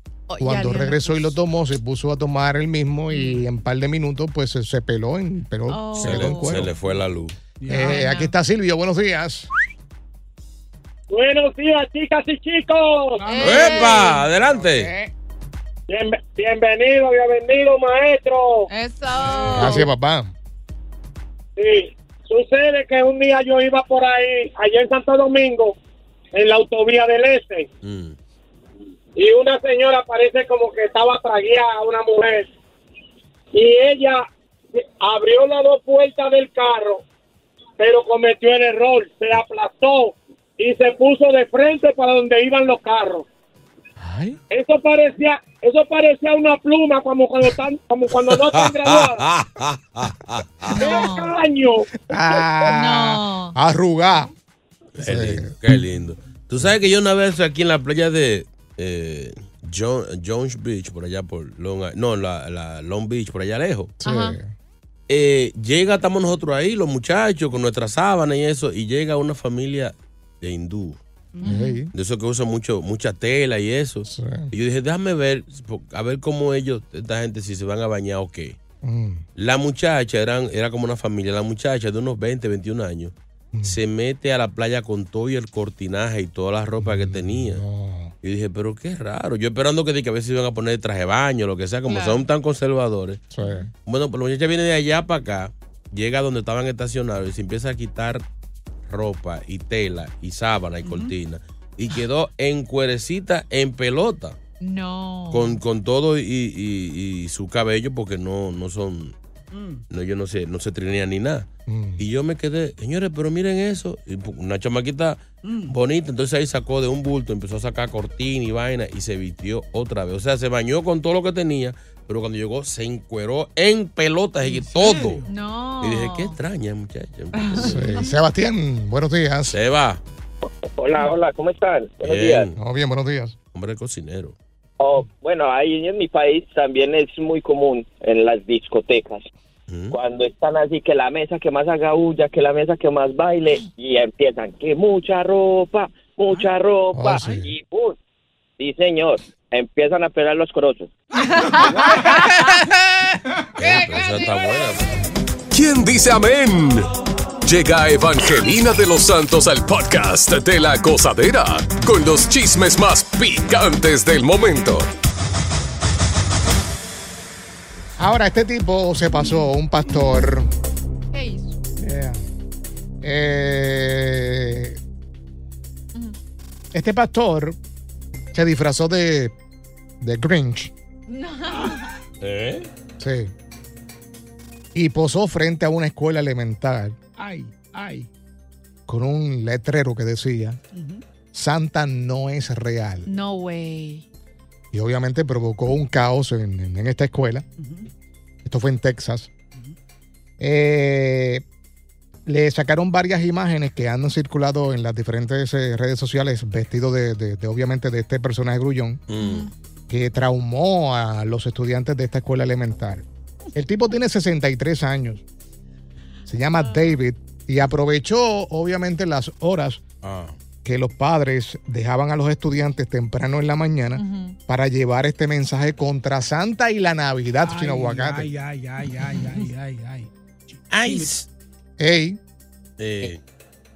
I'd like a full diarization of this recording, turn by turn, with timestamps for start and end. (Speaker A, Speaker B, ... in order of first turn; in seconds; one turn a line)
Speaker A: 0.3-1.4
Speaker B: 0.4-6.7
Speaker A: 3.1-3.4
Speaker A: 5.7-6.7
Speaker C: 6.0-7.3
Speaker D: 7.6-8.0
Speaker B: 7.7-9.5
Speaker A: 7.7-8.3
Speaker E: 11.1-13.2
Speaker D: 13.2-13.9
Speaker A: 13.2-14.3
Speaker C: 13.4-14.9
Speaker B: 14.5-15.1
Speaker E: 15.9-18.7
Speaker A: 18.7-19.9
Speaker B: 19.5-20.3
Speaker E: 21.6-25.8
Speaker E: 26.3-27.7
Speaker C: 27.8-28.1
Speaker E: 29.2-32.5
Speaker E: 33.5-37.0
Speaker E: 37.8-43.2
Speaker E: 44.5-49.2
Speaker C: 48.2-50.8
Speaker A: 50.7-51.3
Speaker E: 50.8-51.9
Speaker B: 52.1-54.3
Speaker A: 52.6-53.5
Speaker C: 55.0-63.9
Speaker B: 55.0-55.5
Speaker B: 64.0-64.5
Speaker A: 64.0-64.4
Speaker C: 65.1-71.0
Speaker B: 71.4-71.9
Speaker A: 71.4-71.8
Speaker C: 71.9-78.6
Speaker B: 74.1-74.5
Speaker B: 78.8-79.2
Speaker C: 79.4-83.1
Speaker C: 83.6-87.6
Speaker B: 86.8-88.1
Speaker C: 88.2-93.2
Speaker A: 91.9-92.2
Speaker B: 93.3-93.7
Speaker A: 93.4-93.7
Speaker C: 93.8-98.2
Speaker C: 98.9-104.4
Speaker A: 104.6-105.6
Speaker C: 105.3-109.1
Speaker D: 109.5-109.8
Speaker C: 109.9-125.2
Speaker B: 111.7-112.0
Speaker D: 115.4-115.8
Speaker D: 124.5-125.3
Speaker A: 125.3-126.4
Speaker C: 125.8-128.0
Speaker A: 127.3-128.1
Speaker B: 127.6-129.6
Speaker C: 129.5-130.0
Speaker F: 130.7-132.5
Speaker C: 132.0-132.6
Speaker B: 132.6-133.3
Speaker C: 133.5-134.3
Speaker F: 134.8-139.2
Speaker C: 139.7-140.0
Speaker F: 139.9-148.0
Speaker B: 146.9-147.5
Speaker F: 148.6-150.9
Speaker A: 151.2-152.7
Speaker D: 151.4-152.5
Speaker C: 153.6-155.0
Speaker A: 153.6-154.6
Speaker G: 155.5-156.9
Speaker G: 157.4-164.9
Speaker B: 168.0-170.5
Speaker A: 171.1-171.6
Speaker B: 171.8-172.2
Speaker B: 173.0-174.8
Speaker B: 176.7-177.6
Speaker B: 178.3-179.3
Speaker B: 180.0-180.7
Speaker A: 181.1-181.9
Speaker C: 182.2-182.7
Speaker B: 183.0-183.3
Speaker B: 184.7-187.0
Speaker D: 187.2-188.1
Speaker B: 188.9-190.6
Speaker D: 190.7-191.0
Speaker B: 191.3-193.1
Speaker A: 193.0-194.0
Speaker B: 194.7-197.4
Speaker D: 197.6-197.9
Speaker B: 198.4-199.3
Speaker B: 200.4-201.4
Speaker B: 202.2-209.0
Speaker C: 209.1-209.5
Speaker A: 209.2-209.5
Speaker B: 209.9-215.2
Speaker B: 216.3-219.8
Speaker A: 216.6-216.9
Speaker C: 220.0-220.3
Speaker B: 220.6-228.3
Speaker A: 223.9-224.4
Speaker D: 227.4-231.1
Speaker C: 230.7-231.2
Speaker B: 231.8-232.2
Speaker C: 232.8-233.2